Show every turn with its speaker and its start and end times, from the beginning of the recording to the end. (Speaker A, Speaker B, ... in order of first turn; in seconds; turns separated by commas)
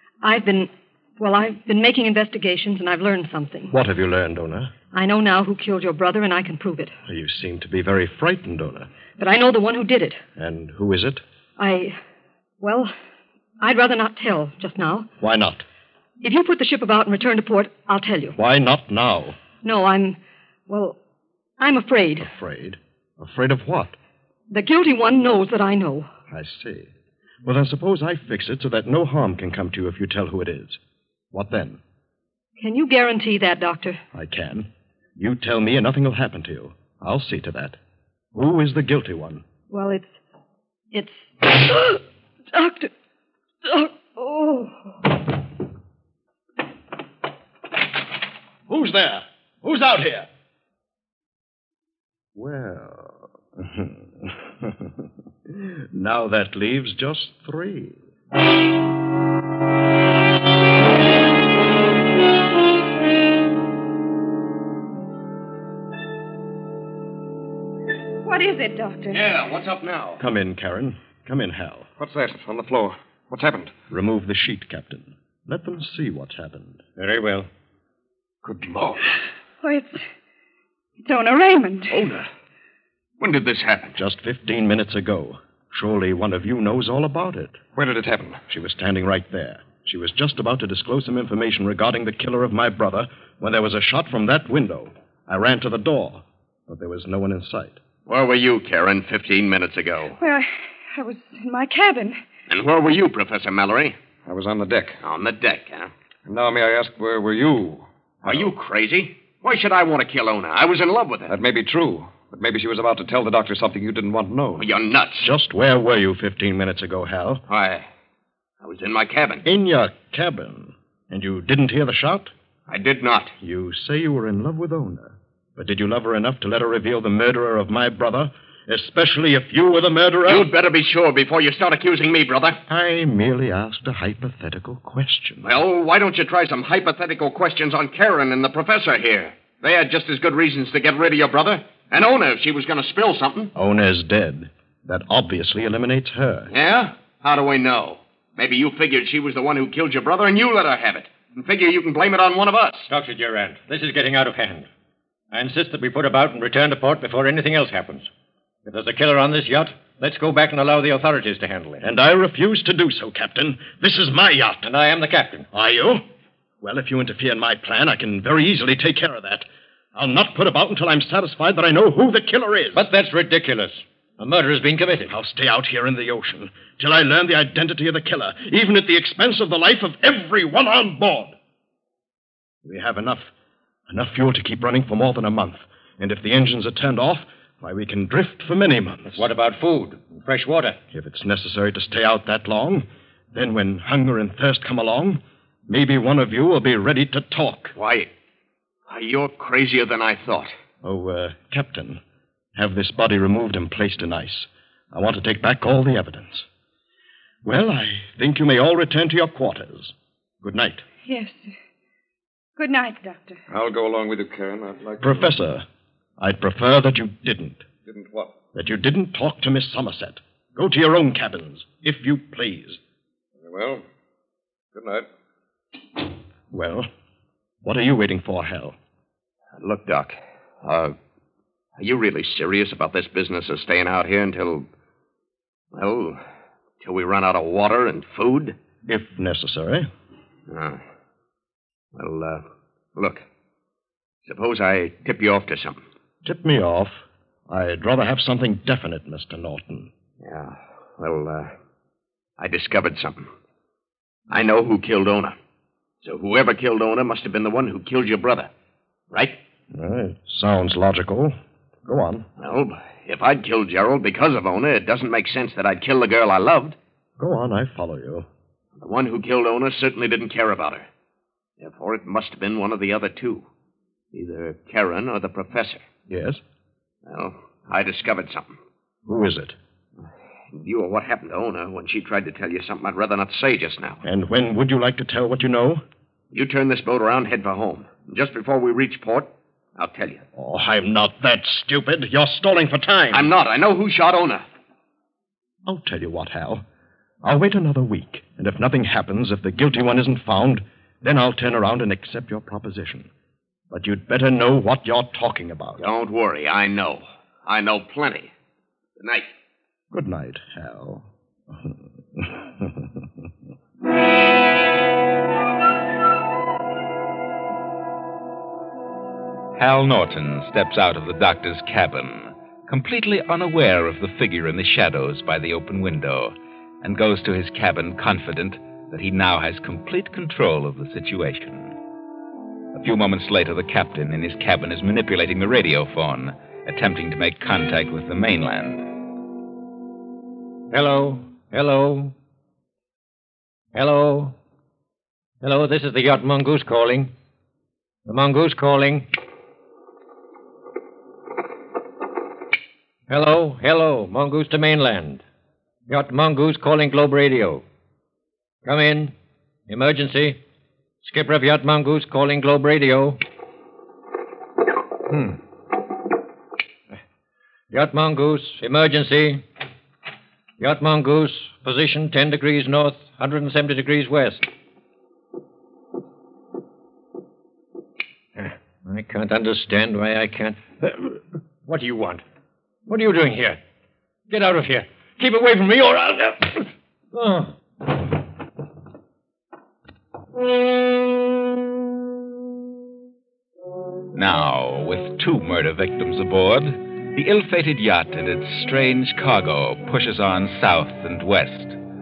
Speaker A: 0.2-3.7, Speaker B: 3.7-4.7, Speaker A: 4.9-6.9, Speaker B: 7.0-8.9, Speaker A: 9.2-10.2, Speaker B: 10.3-11.2, Speaker A: 11.6-11.9, Speaker A: 12.6-12.9, Speaker A: 13.6-15.1, Speaker B: 15.2-15.6, Speaker A: 16.2-18.4, Speaker B: 18.4-19.4, Speaker A: 19.6-21.0, Speaker A: 21.6-22.3, Speaker B: 22.2-23.9, Speaker A: 24.5-26.1, Speaker B: 26.3-26.9, Speaker B: 27.4-30.8, Speaker B: 31.3-31.8, Speaker A: 32.6-34.0, Speaker B: 34.1-37.8, Speaker B: 38.3-39.4, Speaker A: 39.7-40.2, Speaker A: 40.9-42.9, Speaker A: 43.6-44.9, Speaker B: 48.7-50.3, Speaker B: 52.3-54.9, Speaker B: 55.5-58.0, Speaker C: 68.2-69.2, Speaker D: 69.1-70.2, Speaker B: 70.2-71.9, Speaker E: 72.0-73.7, Speaker B: 73.9-76.8, Speaker F: 77.0-77.5, Speaker E: 78.4-79.0, Speaker C: 79.6-80.0, Speaker C: 81.0-82.0, Speaker D: 81.9-82.2, Speaker D: 83.2-84.0, Speaker B: 84.0-87.6, Speaker E: 87.7-88.4, Speaker B: 88.5-97.8, Speaker D: 98.0-100.2, Speaker C: 100.2-102.2, Speaker D: 102.5-104.0, Speaker E: 104.2-105.0, Speaker D: 105.0-105.9, Speaker E: 106.3-108.5, Speaker D: 108.2-111.3, Speaker E: 111.3-114.7, Speaker D: 114.6-115.3, Speaker B: 115.2-117.4, Speaker D: 117.5-117.8, Speaker D: 118.6-119.4, Speaker B: 119.4-122.3, Speaker D: 122.7-123.3, Speaker B: 123.4-130.5, Speaker D: 130.3-132.6, Speaker B: 132.7-135.5, Speaker D: 135.4-143.5, Speaker B: 143.5-146.5, Speaker D: 146.5-152.9, Speaker F: 152.9-154.7, Speaker F: 155.3-158.1, Speaker F: 158.6-161.8, Speaker B: 161.8-164.7, Speaker F: 164.6-165.4, Speaker B: 165.5-166.0, Speaker B: 166.6-172.9, Speaker F: 172.7-175.1, Speaker B: 175.1-181.3, Speaker B: 182.6-183.3, Speaker B: 183.9-189.2, Speaker F: 189.1-190.8, Speaker B: 190.9-197.8, Speaker D: 197.7-198.1, Speaker D: 198.9-200.5, Speaker B: 200.8-202.0, Speaker B: 202.5-206.4, Speaker B: 207.4-210.8, Speaker C: 211.1-211.4, Speaker C: 212.6-213.4, Speaker E: 213.5-215.3, Speaker B: 215.0-215.6, Speaker B: 216.2-217.6, Speaker E: 217.8-218.3, Speaker B: 218.5-222.8, Speaker E: 223.4-223.8, Speaker E: 224.7-225.1, Speaker B: 226.5-226.9, Speaker B: 227.6-228.8, Speaker D: 229.6-230.9, Speaker D: 231.8-234.7, Speaker D: 235.7-236.2, Speaker D: 236.8-238.6, Speaker B: 238.9-239.9, Speaker D: 240.5-240.8, Speaker D: 241.9-242.4, Speaker D: 242.9-243.2, Speaker D: 244.2-245.8, Speaker B: 246.2-249.9, Speaker D: 250.2-251.5, Speaker D: 252.4-253.3, Speaker D: 254.3-255.3, Speaker D: 256.0-258.5, Speaker D: 259.1-259.4, Speaker B: 259.7-262.3, Speaker D: 262.4-266.8, Speaker B: 267.2-268.2, Speaker D: 268.8-270.8, Speaker D: 271.6-273.4, Speaker D: 274.1-275.8, Speaker B: 276.1-276.4, Speaker D: 277.1-278.6, Speaker B: 279.1-279.6, Speaker D: 280.5-284.0, Speaker B: 284.0-285.8, Speaker D: 286.3-290.2, Speaker B: 290.3-293.3, Speaker D: 293.1-294.4, Speaker B: 295.6-296.6, Speaker B: 297.2-303.1, Speaker B: 303.7-305.9, Speaker D: 305.8-308.3, Speaker D: 309.0-309.3, Speaker B: 309.9-311.0, Speaker B: 311.6-312.9, Speaker G: 319.5-331.8, Speaker G: 332.7-339.0, Speaker F: 340.7-342.1, Speaker F: 343.7-344.4, Speaker F: 345.4-347.1, Speaker F: 348.1-349.1, Speaker F: 353.1-355.2, Speaker F: 355.9-357.6, Speaker F: 358.6-359.1, Speaker F: 359.7-360.4, Speaker F: 361.0-363.2, Speaker F: 365.1-365.4, Speaker F: 367.7-369.4, Speaker F: 370.6-374.4, Speaker F: 378.4-382.2, Speaker F: 382.9-383.6, Speaker F: 384.3-386.5, Speaker F: 387.1-387.5, Speaker G: 394.1-401.8